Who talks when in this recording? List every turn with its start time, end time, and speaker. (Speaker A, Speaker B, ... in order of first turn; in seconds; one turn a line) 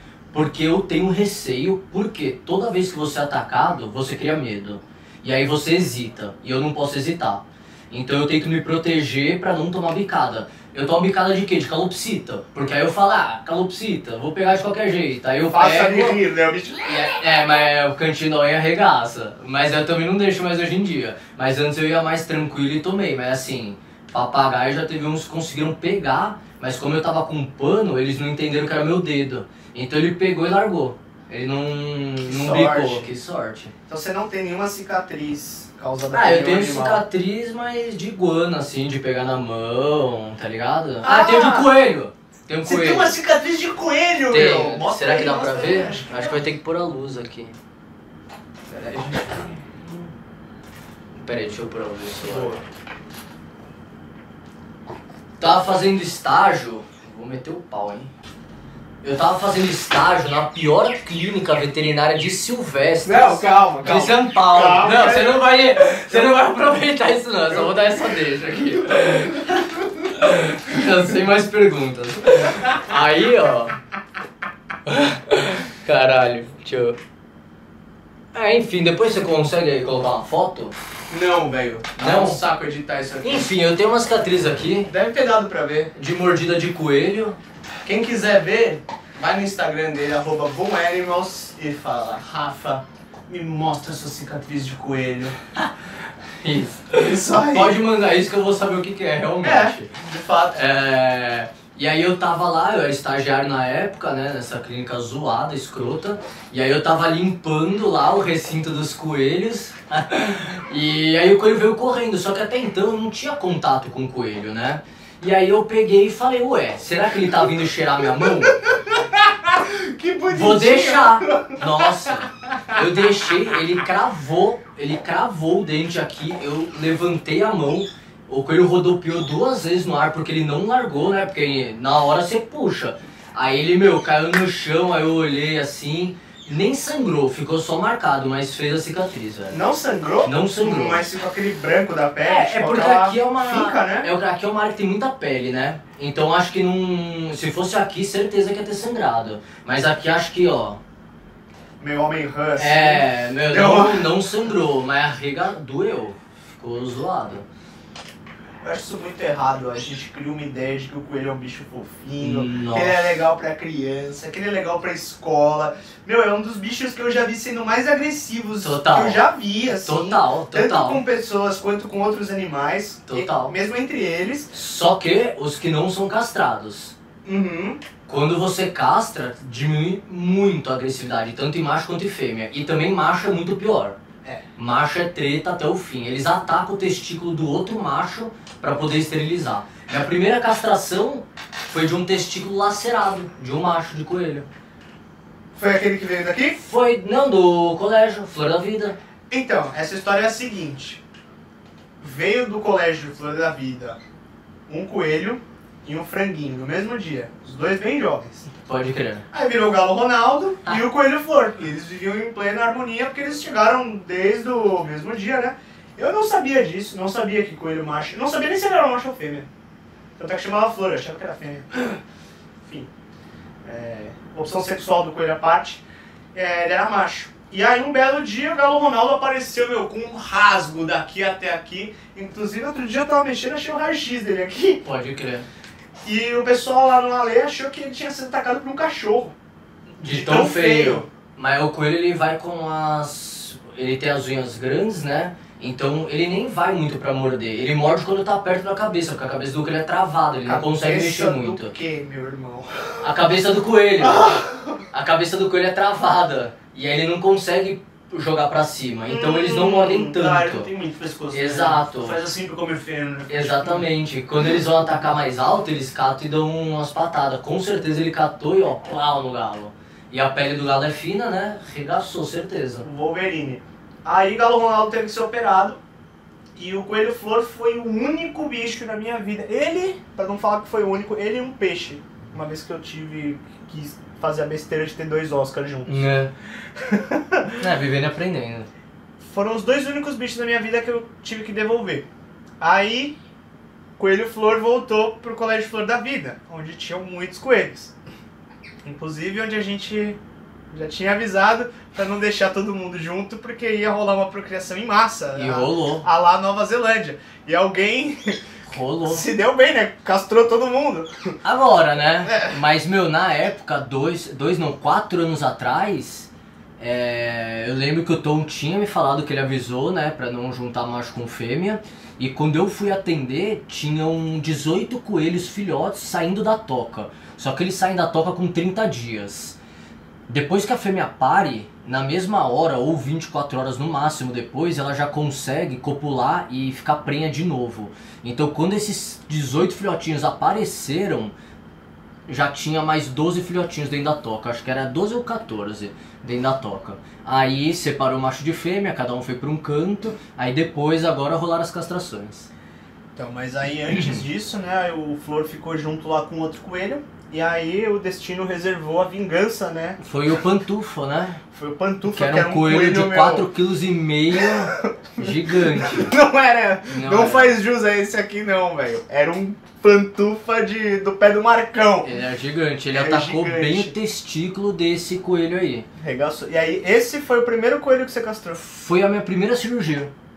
Speaker A: 0.3-16.2
Speaker B: 15.5-17.2
Speaker A: 16.8-33.7
Speaker B: 32.2-33.1
Speaker B: 33.9-37.0
Speaker A: 36.1-43.1
Speaker B: 41.0-41.7
Speaker B: 42.6-46.4
Speaker A: 44.3-47.6
Speaker B: 48.7-49.6
Speaker A: 51.2-52.6
Speaker B: 52.2-52.6
Speaker A: 55.4-58.1
Speaker A: 59.0-73.8
Speaker B: 63.0-66.4
Speaker B: 67.5-68.2
Speaker A: 74.9-77.0
Speaker A: 78.3-80.7
Speaker B: 81.1-83.5
Speaker A: 82.0-82.4
Speaker A: 83.2-84.9
Speaker B: 84.9-85.9
Speaker A: 85.9-87.4
Speaker B: 87.8-95.4
Speaker A: 96.4-99.9
Speaker B: 97.0-97.8
Speaker B: 99.4-100.7
Speaker A: 100.5-118.6
Speaker B: 118.5-122.2
Speaker A: 120.3-139.6
Speaker B: 139.5-144.1
Speaker A: 140.2-141.1
Speaker A: 142.2-150.8
Speaker B: 151.8-154.1
Speaker A: 152.6-157.4
Speaker B: 158.6-174.5
Speaker A: 162.2-163.1
Speaker A: 168.6-171.0
Speaker A: 173.1-173.6
Speaker A: 174.5-176.9
Speaker B: 177.2-177.8
Speaker A: 178.1-184.0
Speaker A: 184.6-194.5
Speaker B: 195.6-196.6
Speaker A: 196.6-199.0
Speaker B: 199.3-201.0
Speaker B: 202.0-204.0
Speaker B: 204.7-208.5
Speaker A: 208.6-209.2
Speaker B: 209.3-219.5
Speaker B: 220.2-222.0
Speaker B: 222.6-222.9
Speaker B: 223.6-225.8
Speaker B: 226.3-234.8
Speaker A: 234.8-235.4
Speaker B: 236.0-239.3
Speaker B: 240.0-241.1
Speaker A: 240.0-251.7
Speaker B: 250.4-253.1
Speaker A: 253.0-260.7
Speaker B: 254.0-254.8
Speaker B: 259.1-263.8
Speaker A: 261.3-262.2
Speaker A: 263.3-272.9
Speaker B: 272.8-275.8
Speaker B: 276.6-286.1
Speaker A: 285.9-286.3
Speaker B: 286.7-287.6
Speaker A: 287.6-288.7
Speaker B: 289.2-292.1
Speaker B: 292.6-293.1
Speaker B: 294.0-297.9
Speaker B: 298.8-300.2
Speaker B: 300.7-308.4
Speaker A: 305.4-306.1
Speaker A: 308.7-309.3
Speaker B: 309.1-311.3
Speaker A: 311.4-329.6
Speaker B: 312.2-312.6
Speaker A: 330.3-341.3
Speaker A: 342.3-352.5
Speaker B: 353.1-360.0
Speaker A: 353.9-354.2
Speaker A: 360.0-361.4
Speaker B: 361.5-363.5
Speaker A: 362.1-366.1
Speaker B: 364.4-372.1
Speaker A: 366.9-367.6
Speaker A: 372.0-375.9
Speaker B: 372.9-373.9
Speaker B: 376.0-378.6
Speaker A: 378.6-380.1